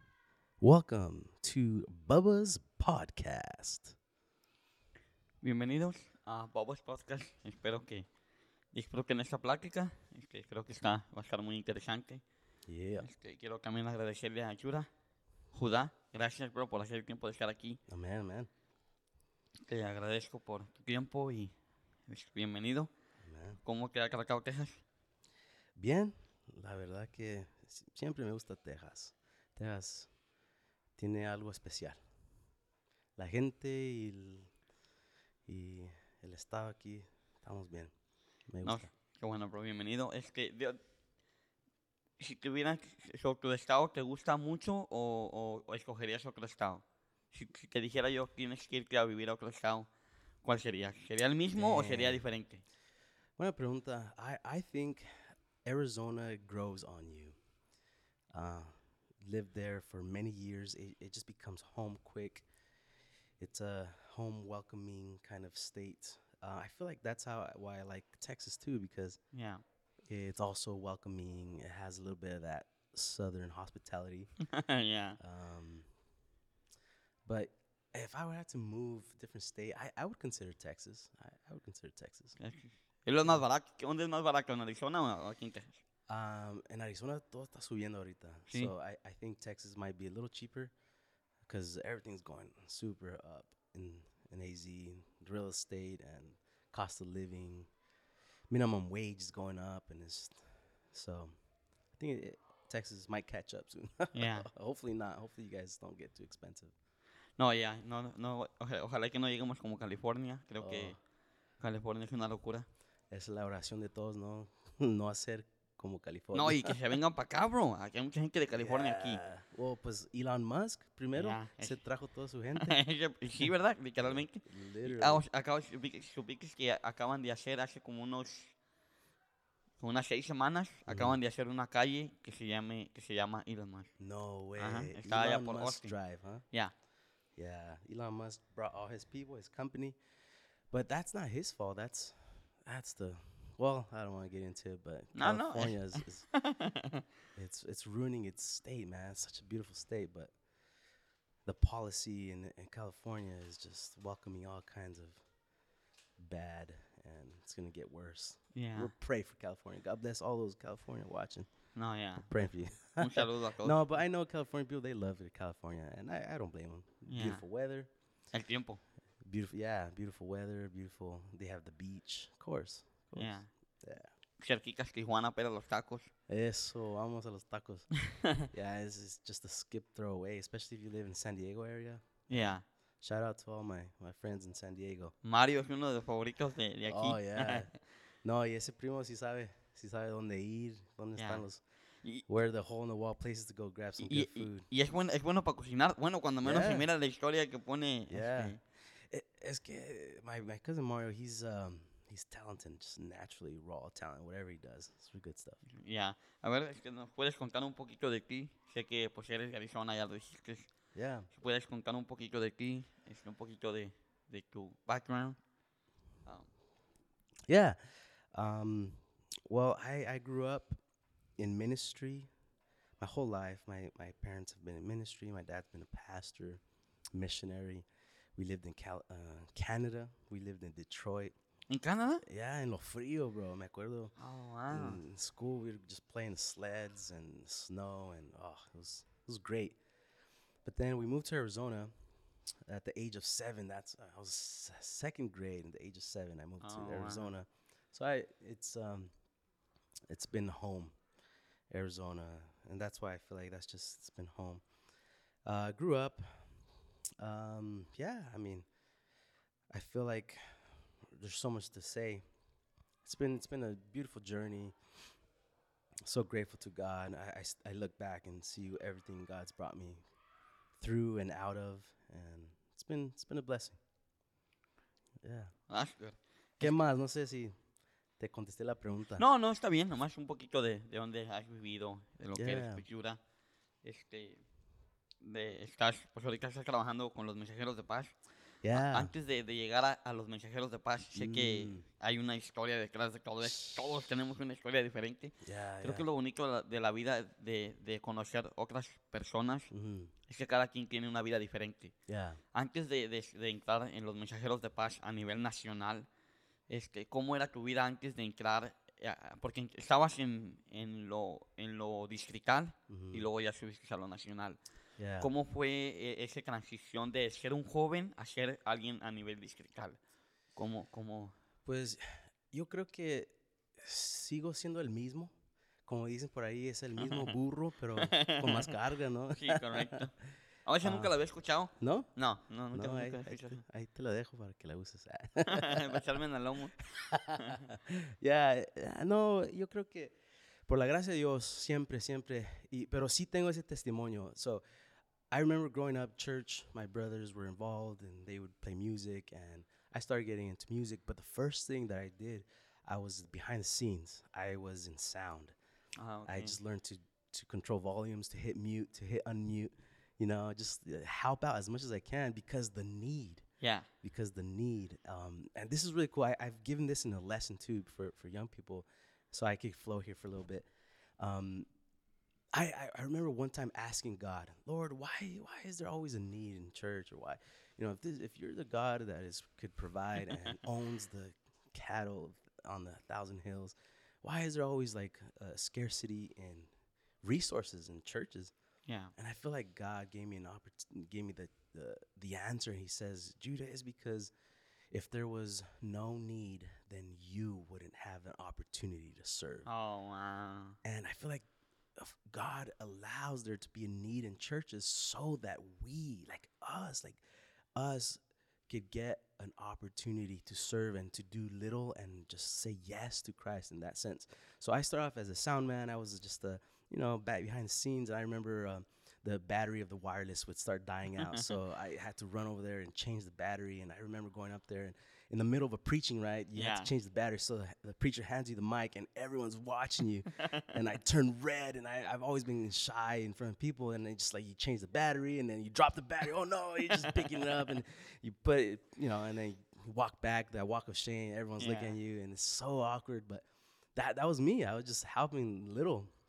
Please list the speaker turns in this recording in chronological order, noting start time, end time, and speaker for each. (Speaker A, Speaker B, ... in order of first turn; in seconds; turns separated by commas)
Speaker A: 0.6-4.0, Speaker B: 5.4-8.1, Speaker B: 8.7-12.2, Speaker A: 12.7-13.1, Speaker B: 13.0-14.9, Speaker B: 15.5-17.8, Speaker A: 17.9-18.5, Speaker B: 19.6-21.5, Speaker B: 22.1-22.9, Speaker A: 23.2-23.6, Speaker B: 23.6-24.8, Speaker A: 25.8-30.1, Speaker A: 31.0-32.0, Speaker A: 33.2-34.5, Speaker A: 35.5-37.9, Speaker A: 38.5-38.9, Speaker B: 38.6-40.8, Speaker B: 42.2-49.9, Speaker B: 50.4-52.6, Speaker A: 51.5-52.2, Speaker A: 53.4-55.1, Speaker A: 55.6-57.3, Speaker A: 58.3-62.5, Speaker A: 63.4-69.2, Speaker B: 69.3-69.6, Speaker A: 70.1-74.3, Speaker B: 74.4-75.2, Speaker A: 75.2-75.8, Speaker A: 77.2-82.4, Speaker B: 82.4-85.8, Speaker A: 86.1-90.7, Speaker A: 91.5-97.7, Speaker A: 98.5-100.4, Speaker A: 100.9-101.3, Speaker A: 102.0-106.7, Speaker B: 104.1-104.5, Speaker B: 107.4-111.0, Speaker A: 110.6-111.0, Speaker B: 111.6-112.7, Speaker A: 113.1-116.8, Speaker B: 116.3-119.2, Speaker A: 118.5-122.8, Speaker B: 121.1-121.8, Speaker B: 122.6-128.5, Speaker A: 124.0-125.2, Speaker B: 129.8-133.9, Speaker A: 130.9-131.2, Speaker A: 134.0-136.4, Speaker B: 134.6-135.9, Speaker A: 137.3-140.0, Speaker A: 140.7-146.3, Speaker B: 145.1-147.0, Speaker A: 147.3-150.3, Speaker A: 151.4-155.2, Speaker A: 156.2-161.5, Speaker B: 158.5-158.9, Speaker B: 161.7-162.3, Speaker A: 162.3-167.9, Speaker B: 162.9-163.8, Speaker B: 167.1-167.4, Speaker B: 168.3-168.8, Speaker A: 169.2-174.1, Speaker B: 173.2-173.5, Speaker B: 174.4-176.1, Speaker A: 176.3-185.1, Speaker B: 182.3-182.6, Speaker B: 185.2-187.7, Speaker A: 186.9-191.6, Speaker B: 191.2-191.4, Speaker A: 192.3-194.7, Speaker B: 194.0-198.6, Speaker A: 196.4-196.9, Speaker A: 198.1-198.6, Speaker A: 199.1-205.6, Speaker B: 205.7-210.7, Speaker A: 210.9-211.3, Speaker B: 211.3-215.4, Speaker A: 217.5-217.8, Speaker A: 218.3-220.8, Speaker A: 221.4-222.3, Speaker A: 223.0-226.6, Speaker A: 227.1-227.8, Speaker A: 228.3-231.3, Speaker B: 231.7-232.2, Speaker A: 232.2-234.1, Speaker B: 234.2-235.0, Speaker A: 234.7-239.8, Speaker A: 240.6-241.9, Speaker A: 242.7-249.1, Speaker B: 246.6-247.3, Speaker A: 250.1-250.9, Speaker A: 251.7-254.6, Speaker A: 255.4-256.4, Speaker A: 257.2-258.6, Speaker A: 259.7-260.4, Speaker A: 261.1-262.2, Speaker A: 263.0-264.7, Speaker A: 266.1-270.0, Speaker A: 270.8-273.8, Speaker A: 275.2-275.5, Speaker B: 275.7-276.7, Speaker A: 276.6-277.6, Speaker A: 278.2-279.2, Speaker B: 279.2-283.2, Speaker A: 282.4-282.8, Speaker B: 283.8-284.4, Speaker B: 285.2-288.1, Speaker A: 288.6-289.1, Speaker B: 288.7-299.7, Speaker A: 291.1-291.9, Speaker A: 293.4-293.8, Speaker A: 295.4-296.1, Speaker A: 299.7-300.1, Speaker B: 300.3-301.9, Speaker A: 302.1-302.4, Speaker B: 302.5-306.1, Speaker B: 306.7-314.6, Speaker A: 312.9-313.2, Speaker A: 315.0-315.3, Speaker B: 315.2-320.0, Speaker B: 320.6-321.3, Speaker A: 321.6-325.3, Speaker A: 325.9-330.1, Speaker B: 327.0-327.4, Speaker B: 328.0-328.7, Speaker B: 329.4-330.1, Speaker B: 330.6-333.6, Speaker A: 330.8-331.1, Speaker A: 331.8-332.1, Speaker A: 332.7-336.0, Speaker B: 335.5-336.8, Speaker A: 336.9-340.1, Speaker B: 337.4-337.6, Speaker A: 340.7-344.6, Speaker A: 345.3-355.5, Speaker B: 356.0-356.6, Speaker A: 356.2-363.4, Speaker B: 363.6-363.9, Speaker A: 364.0-370.6, Speaker A: 371.2-371.7, Speaker A: 372.5-386.7, Speaker A: 387.2-388.5, Speaker B: 388.9-389.1, Speaker A: 389.1-394.3, Speaker A: 394.9-399.7, Speaker B: 399.6-400.8, Speaker A: 400.8-401.4, Speaker A: 402.0-407.2, Speaker A: 407.8-443.4, Speaker B: 426.5-426.9, Speaker B: 430.4-430.6, Speaker B: 436.9-437.4, Speaker B: 441.6-442.0, Speaker A: 443.9-446.1